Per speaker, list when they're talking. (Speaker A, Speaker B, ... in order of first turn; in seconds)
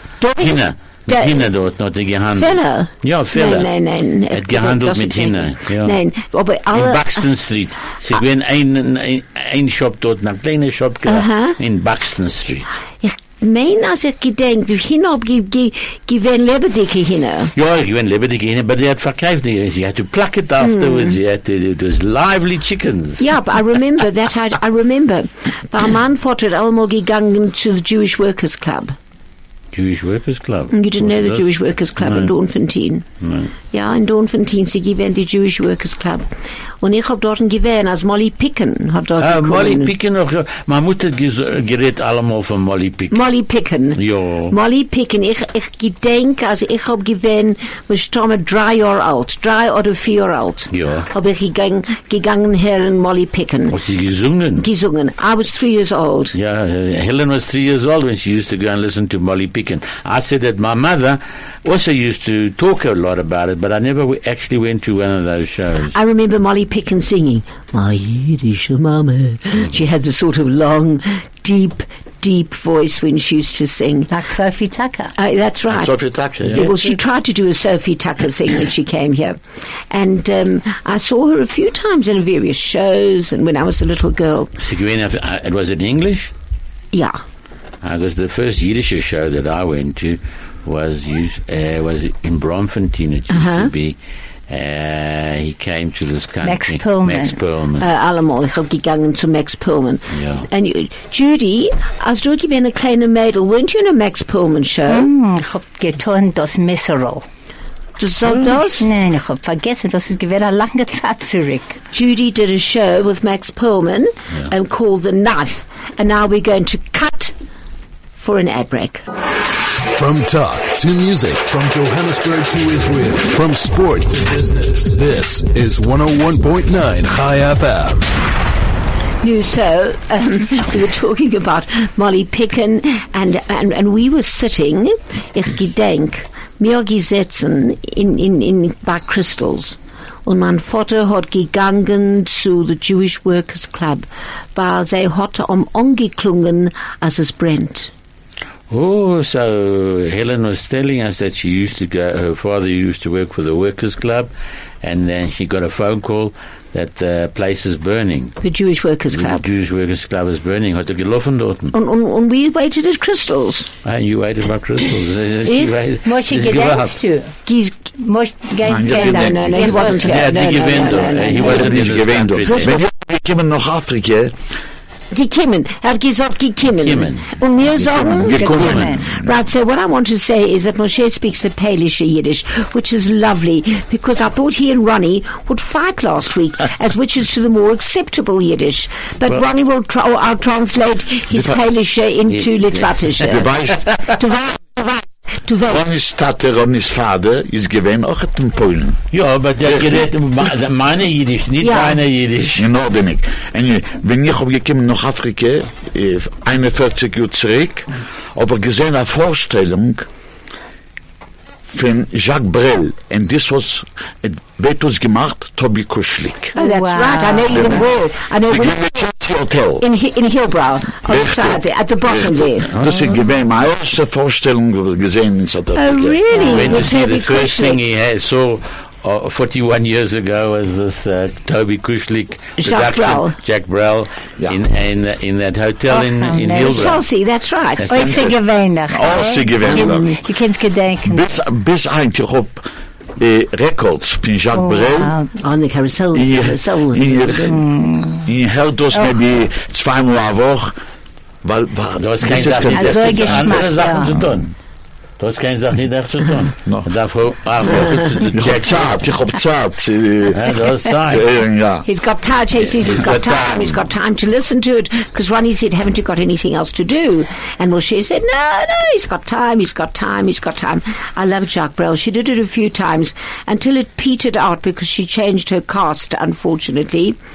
Speaker A: 0.2-1.5, 2.4-7.2, 11.1-11.6, 13.0-17.5, 20.6-21.2, 23.2-28.9, 30.7-33.1, 33.7-36.3, 36.8-39.9, 43.1-53.8, 54.6-56.4, 65.9-74.1, 75.2-79.4, 79.9-84.5, 86.9-87.2, 93.3-93.7, 97.8-105.1, 108.0-108.9, 111.9-117.3, 118.2-119.0, 129.2-147.9, 158.4-159.4, 161.7-163.7, 165.5-165.8, 167.5-167.8, 168.9-171.8, 172.5-172.8, 175.1-195.8, 201.6-202.0, 216.6-219.0, 219.8-222.8, 225.8-227.8, 232.6-233.3, 236.6-238.1, 239.7-240.2, 245.4-247.4, 261.9-277.2
Speaker B: 0.4-3.7, 4.3-6.0, 6.7-12.7, 17.6-23.2, 29.7-32.3, 33.2-33.5, 39.2-43.3, 44.0-44.5, 50.7-51.1, 53.7-54.7, 56.3-66.0, 84.6-86.3, 87.8-94.0, 94.5-97.8, 100.1-100.5, 148.7-154.3, 154.8-158.4, 159.1-161.8, 163.8-166.9, 169.7-172.8, 176.8-177.3, 199.1-202.7, 222.7-223.1, 226.3-237.0, 237.8-238.1, 252.0-254.5, 255.2-258.9, 260.3-261.3, 262.8-263.7
Speaker C: 74.1-75.1, 96.4-97.4, 104.9-107.2, 108.8-111.8, 166.0-167.4, 167.9-170.2, 178.4-179.1, 216.6-217.8, 235.9-236.9, 237.9-241.3, 244.6-245.3, 247.5-248.3, 252.7-254.2
Speaker D: 75.7-76.7, 168.7-170.0, 171.3-174.3, 177.7-179.3, 191.3-191.6, 193.2-193.9, 195.7-199.0, 199.6-200.1, 202.6-210.1, 211.7-216.6, 217.5-217.9, 218.5-219.8, 221.1-226.9, 237.9-238.4, 238.9-240.2, 241.1-242.6, 243.2-245.2, 246.1-247.6, 248.2-250.8, 251.4-254.5, 258.3-260.5, 261.1-261.9, 263.1-263.4
Speaker E: 119.7-128.1